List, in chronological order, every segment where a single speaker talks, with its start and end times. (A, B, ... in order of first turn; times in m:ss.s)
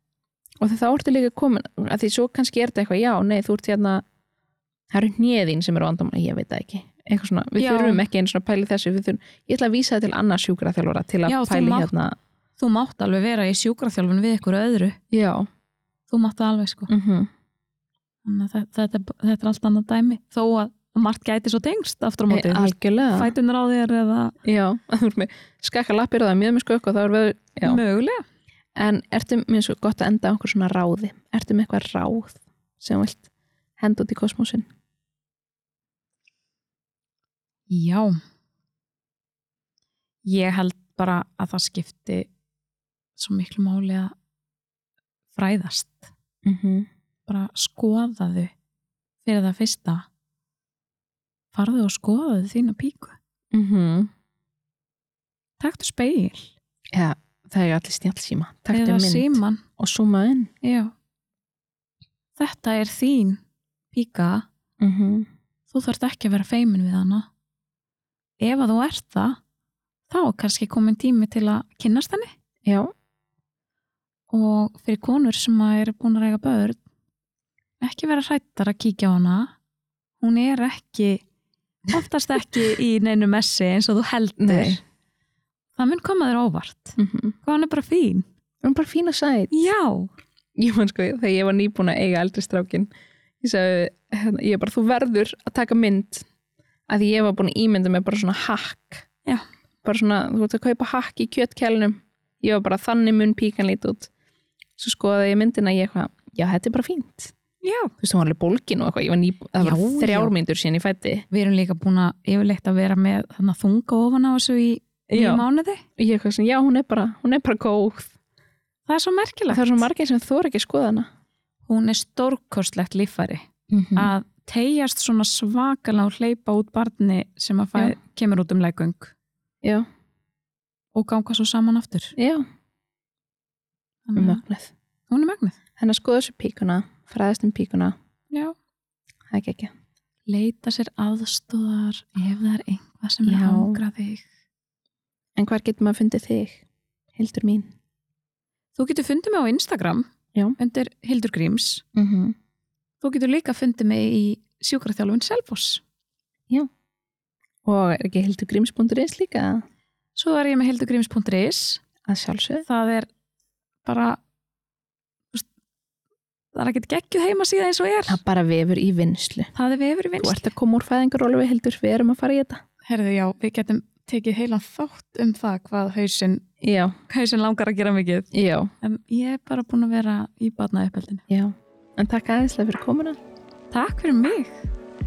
0:00.6-0:04.0 A
0:04.9-0:12.2 A
0:07.6-0:08.0 B
0:11.3-0:11.9 B
0:12.6-0:15.0 B
0:15.1-0:15.5 A
0:16.1-0:16.9 B
0:16.9-0:17.3 A
0:18.2-0:24.4 B
0:22.3-0:23.3 A
0:24.4-0:27.8 A
0:27.6-0:28.2 B
0:28.8-0:33.3 A
0:33.8-0:34.7 A
0:37.7-0:38.2 B
0:40.2-0:42.3 B
0:43.2-0:44.1 B
0:45.3-0:46.1 B
0:46.4-0:46.9 A
0:47.3-0:48.5 B
0:49.2-0:50.1 B
0:51.5-0:53.2 B
0:53.5-0:54.1 A
0:55.6-0:56.5 B
0:56.9-1:00.5 A
0:58.7-0:59.6 B
1:00.6-1:00.9 B
1:02.4-1:03.4 B
1:03.9-1:04.5 B
1:04.8-1:05.3 A
1:05.7-1:07.3 B
1:08.4-1:09.4 B
1:10.1-1:12.3 B
1:12.7-1:12.9 A
1:14.3-1:16.8 B
1:17.8-1:19.5 B
1:20.2-1:21.2 B
1:21.9-1:24.8 B
1:24.4-1:24.8 A
1:25.8-1:28.2 B
1:27.0-1:27.4 A
1:28.6-1:29.5 A
1:29.5-1:30.1 B
1:30.6-1:32.9 A
1:33.4-1:36.2 A
1:36.9-1:39.1 A
1:39.8-1:44.1 A
1:44.8-1:47.3 A
1:47.6-1:47.9 B
1:48.0-1:51.3 A
1:49.6-1:50.3 B
1:51.3-1:55.8 B
1:55.2-1:55.4 A
1:56.0-1:58.1 A
1:58.9-1:59.9 B
1:59.5-2:01.1 A
2:01.7-2:09.1 B
2:03.7-2:04.1 A
2:11.0-2:12.1 B
2:12.2-2:12.5 A
2:14.1-2:14.4 B
2:14.2-2:14.7 A
2:15.1-2:15.6 B
2:15.8-2:18.0 A
2:19.3-2:19.7 A
2:20.3-2:24.3 B
2:23.3-2:23.8 A
2:25.4-2:26.6 A
2:27.2-2:27.7 A
2:28.8-2:31.8 B
2:32.0-2:32.4 A
2:33.0-2:35.8 B
2:37.6-2:39.6 A
2:40.2-2:41.8 B
2:42.0-2:42.7 A
2:42.7-2:43.1 B
2:43.8-2:44.2 B
2:46.5-2:48.2 B
2:48.1-2:49.5 A
2:49.5-2:50.5 B
2:50.2-2:52.6 A
2:52.8-2:56.4 B
2:56.6-2:57.0 A
2:57.1-2:58.3 B
2:58.3-2:58.7 A
2:58.8-3:01.2 B
3:01.3-3:03.2 A
3:03.7-3:04.7 B